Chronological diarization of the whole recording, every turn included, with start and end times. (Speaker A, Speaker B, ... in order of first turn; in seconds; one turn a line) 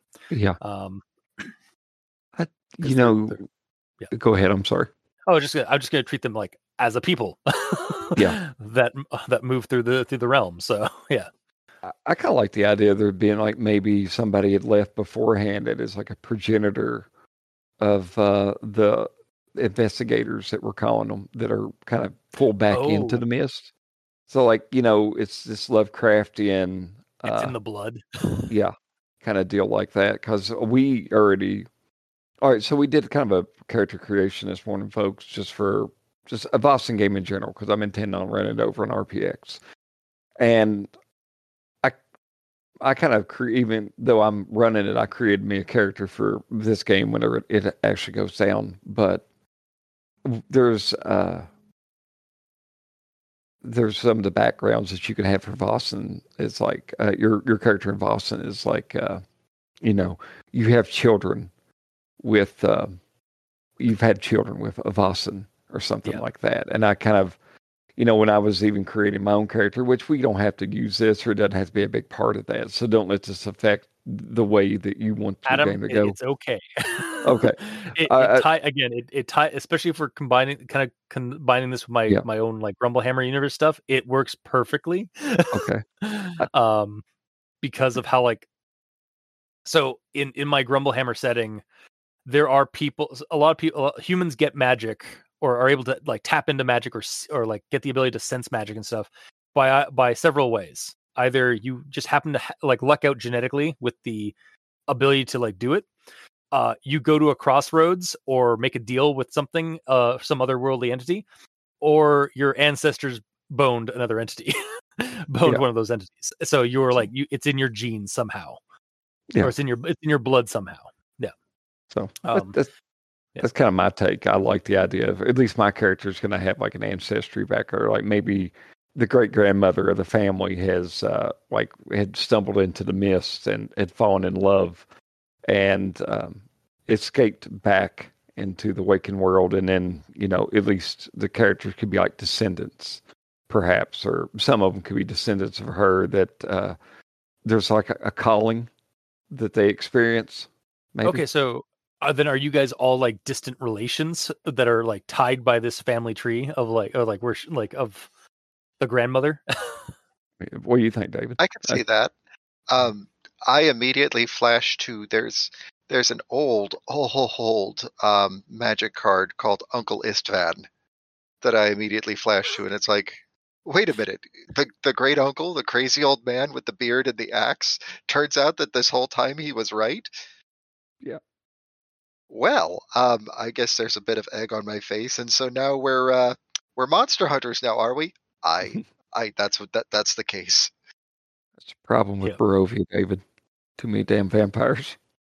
Speaker A: 0.3-0.6
Speaker B: 0.6-1.5
Speaker A: 2.4-3.4
Speaker B: 2.8-3.4
Speaker A: 4.1-4.9
Speaker B: 5.3-11.3
Speaker A: 11.8-17.1
Speaker A: 17.8-23.7
Speaker B: 22.7-23.2
Speaker A: 24.3-27.6
Speaker B: 27.3-28.5
Speaker A: 28.5-31.7
Speaker A: 32.4-39.6
Speaker A: 40.4-40.9
Speaker A: 42.8-49.2
Speaker A: 50.2-51.5
Speaker A: 53.6-59.2
Speaker A: 59.8-61.5
Speaker A: 62.2-63.0
Speaker A: 63.8-67.4
Speaker A: 68.0-76.2
Speaker B: 75.5-87.0
Speaker A: 77.2-78.5
Speaker A: 85.5-85.8
Speaker B: 87.6-88.5
Speaker B: 89.7-91.6
Speaker B: 92.3-104.3
Speaker B: 104.9-105.9
Speaker B: 106.5-111.2
Speaker B: 111.8-118.6
Speaker B: 119.4-121.3
Speaker A: 121.9-122.7
Speaker B: 122.2-122.6
Speaker A: 123.4-134.8
Speaker A: 135.5-146.8
Speaker A: 147.4-148.7
Speaker A: 149.3-151.2
Speaker B: 151.0-158.1
Speaker B: 158.8-159.9
Speaker A: 160.4-161.8
Speaker C: 161.4-162.1
Speaker C: 162.7-170.7
Speaker C: 171.4-180.1
Speaker C: 182.3-190.7
Speaker A: 191.6-193.2
Speaker A: 193.8-195.0